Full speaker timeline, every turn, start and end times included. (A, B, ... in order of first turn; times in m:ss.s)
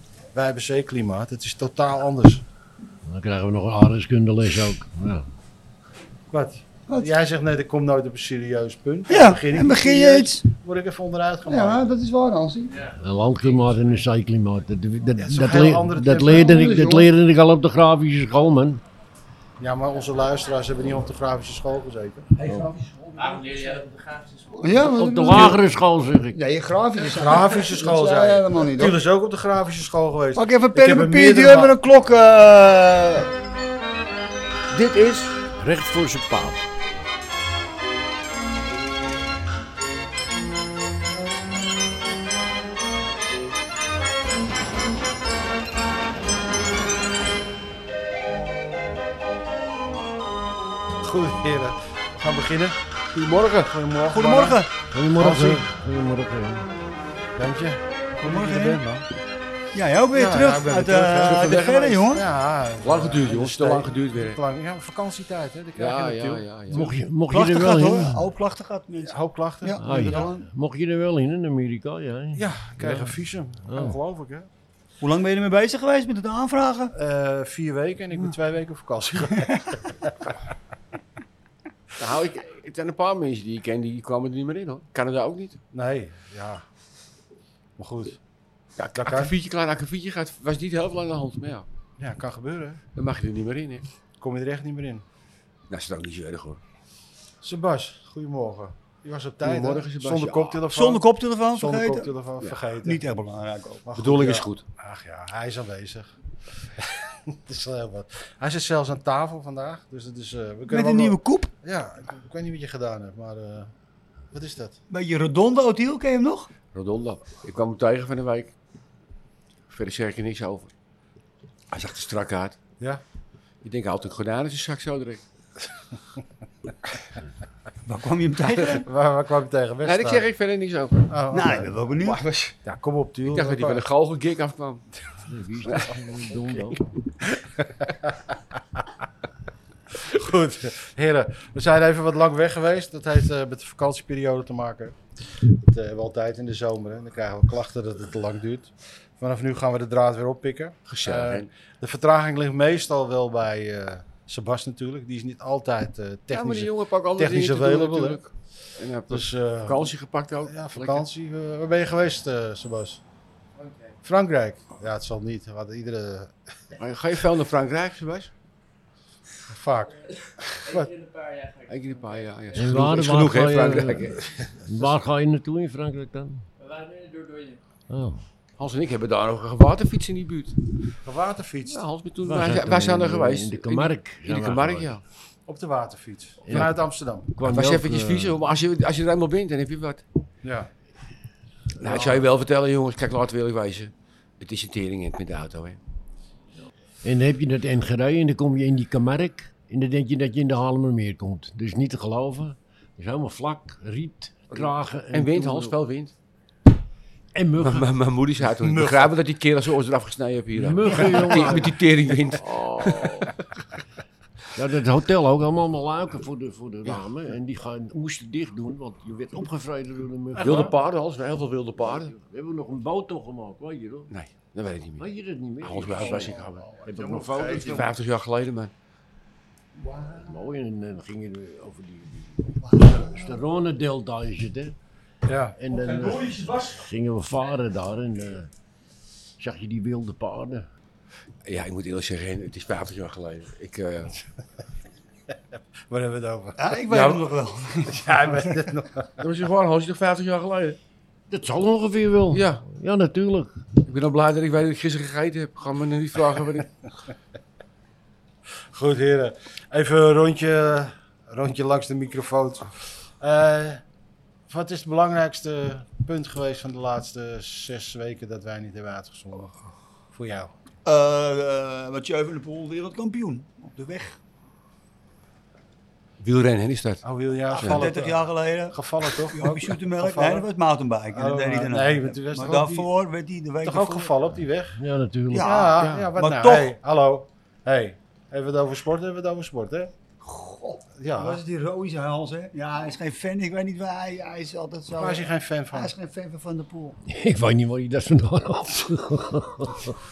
0:00.3-0:02.4 A
0:03.0-0:05.3 B
0:06.3-0:11.9 A
0:09.1-0:10.4 C
0:11.5-0:12.8 C
0:12.8-0:13.8 D
0:13.0-0:18.8 B
0:15.2-0:16.8 A
0:16.3-0:17.1 C
0:19.6-0:22.3 A
0:22.4-0:23.4 E
0:22.5-0:22.7 B
0:23.1-0:24.9 D
0:24.6-0:25.6 C
0:24.8-0:26.4 B
0:26.3-0:29.0 C
0:27.1-0:31.8 A
0:30.4-0:33.3 C
0:34.7-0:35.2 E
0:35.6-0:36.6 B
0:51.0-0:54.6 A
0:54.1-0:54.7 C
0:54.9-0:56.7 B
0:55.2-0:55.7 A
0:57.4-0:59.0 A
0:58.2-0:58.8 C
0:59.7-1:02.2 C
1:00.1-1:06.9 A
1:01.2-1:02.1 E
1:02.8-1:04.4 E
1:05.8-1:06.9 E
1:06.7-1:08.3 B
1:07.3-1:10.5 C
1:09.1-1:10.3 A
1:09.8-1:14.0 B
1:12.4-1:14.5 A
1:15.0-1:16.9 C
1:16.9-1:20.2 A
1:22.0-1:25.6 E
1:25.7-1:26.6 A
1:27.8-1:28.2 A
1:28.8-1:31.7 E
1:29.0-1:29.3 A
1:32.0-1:32.8 A
1:33.0-1:33.9 E
1:34.2-1:35.0 A
1:35.7-1:36.6 E
1:37.4-1:43.0 A
1:39.4-1:40.6 E
1:40.7-1:42.1 C
1:42.8-1:43.8 C
1:43.8-1:46.1 A
1:44.0-1:44.6 E
1:46.8-1:53.7 A
1:50.7-1:51.5 C
1:54.3-1:54.8 A
1:54.9-1:56.5 C
1:56.7-1:58.5 E
1:59.7-2:00.7 E
2:01.7-2:02.6 E
2:03.6-2:05.2 E
2:07.8-2:08.9 C
2:08.8-2:10.2 A
2:09.8-2:11.1 E
2:11.1-2:11.7 A
2:11.3-2:12.5 C
2:12.0-2:12.5 E
2:12.6-2:13.8 A
2:13.3-2:14.9 E
2:15.2-2:16.8 B
2:15.6-2:16.0 E
2:20.0-2:25.0 A
2:25.6-2:38.2 A
2:30.9-2:31.5 E
2:36.3-2:41.0 E
2:39.1-2:39.9 A
2:40.5-2:43.0 A
2:43.6-2:43.9 D
2:44.0-2:46.3 A
2:46.8-2:48.3 E
2:49.5-2:50.9 A
2:50.5-2:52.8 D
2:51.7-2:54.3 E
2:52.6-2:56.4 B
2:56.6-2:57.6 D
2:57.9-2:58.2 B
2:58.6-3:00.6 E
3:01.0-3:01.8 A
3:01.7-3:05.0 E
3:02.2-3:04.9 B
3:05.5-3:07.3 A
3:06.4-3:06.8 B
3:07.3-3:08.5 B
3:07.4-3:10.0 E
3:10.4-3:10.7 A
3:11.8-3:15.8 E
3:17.0-3:25.7 B
3:24.5-3:26.1 E
3:27.3-3:27.9 B
3:27.6-3:33.4 E
3:28.6-3:29.1 A
3:30.6-3:33.3 B
3:34.6-3:40.8 B
3:40.4-3:40.7 A
3:40.4-3:42.2 E
3:41.8-3:44.1 B
3:44.1-3:45.1 E
3:45.0-3:47.9 B
3:45.6-3:46.7 E
3:46.0-3:46.8 C
3:46.8-3:47.9 A
3:47.4-3:48.7 E
3:49.8-3:50.3 C
3:50.1-3:54.8 B
3:52.6-3:53.4 C
3:55.3-3:55.6 A
3:55.6-3:58.5 B
3:55.9-3:56.5 C
3:59.4-4:00.7 B
4:01.5-4:04.1 E
4:05.9-4:06.7 A
4:06.6-4:08.6 C
4:06.9-4:07.2 E
4:07.9-4:09.2 A
4:09.2-4:10.8 E
4:11.3-4:13.7 B
4:12.3-4:12.6 E
4:13.9-4:16.7 E
4:18.7-4:23.8 A
4:24.5-4:29.6 A
4:30.1-4:30.5 A
4:30.8-4:34.2 C
4:36.2-4:37.0 E
4:37.0-4:40.5 A
4:37.5-4:44.1 C
4:41.1-4:42.9 A
4:43.6-4:44.8 A
4:44.8-4:45.5 B
4:45.3-4:46.7 C
4:45.4-4:49.9 A
4:45.8-4:46.1 E
4:50.2-4:57.0 C
4:51.0-4:51.4 A
4:55.0-4:55.9 A
4:57.0-4:59.9 B